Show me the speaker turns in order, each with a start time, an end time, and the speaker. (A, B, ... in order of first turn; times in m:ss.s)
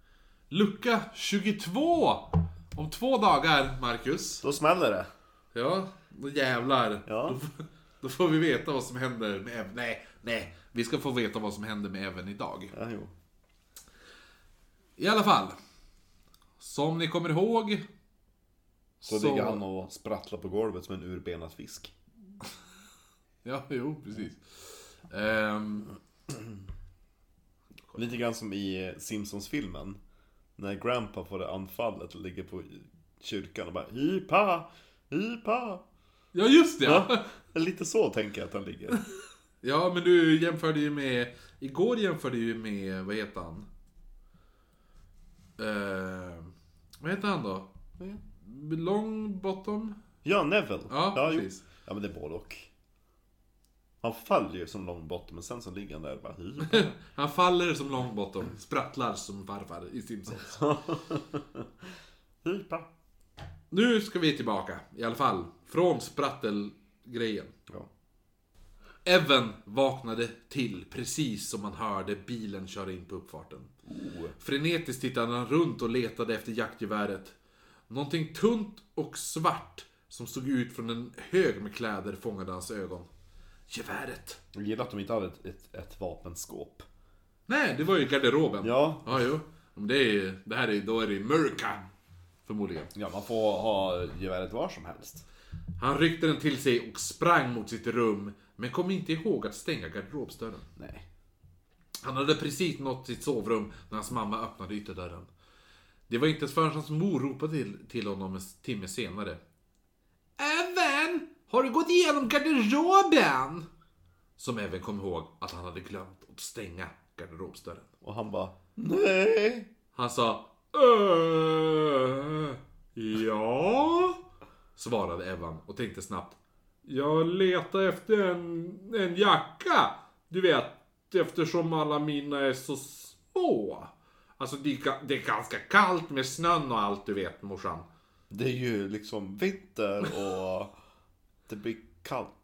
0:00.5-0:04.4 A
0:04.4-0:05.1 B
0:05.5-0:12.7 A
0:07.1-0:07.4 B
0:12.7-0:13.1 B
0:15.0-0:15.6 A
0:16.6-0:17.8 A
0:19.0-0:19.6 A
0:19.0-0:21.9 B
0:23.4-0:25.9 A
0:27.9-0:30.0 B
0:30.6-0:35.8 B
0:36.3-0:37.3 A
0:36.8-0:39.0 B
0:39.6-0:43.6 A
0:45.6-0:47.7 A
0:48.4-0:50.0 A
0:50.2-0:52.7 B
0:50.9-0:51.6 A
0:54.0-0:56.9 B
0:56.6-1:00.6 A
1:00.4-1:01.7 B
1:02.4-1:02.9 B
1:03.7-1:07.5 A
1:09.0-1:13.7 A
1:13.8-1:14.3 B
1:14.4-1:17.4 A
1:17.9-1:23.1 A
1:23.7-1:24.4 A
1:24.5-1:26.8 B
1:27.5-1:31.8 A
1:28.6-1:29.3 B
1:32.4-1:32.9 A
1:32.9-1:35.2 B
1:35.8-1:40.7 A
1:40.8-1:41.0 B
1:42.0-1:45.3 A
1:46.1-1:49.4 A
1:50.4-1:53.6 A
1:54.4-1:57.9 A
1:58.0-1:59.7 B
1:59.9-2:04.2 A
2:04.8-2:17.9 A
2:18.3-2:20.7 B
2:21.5-2:22.3 B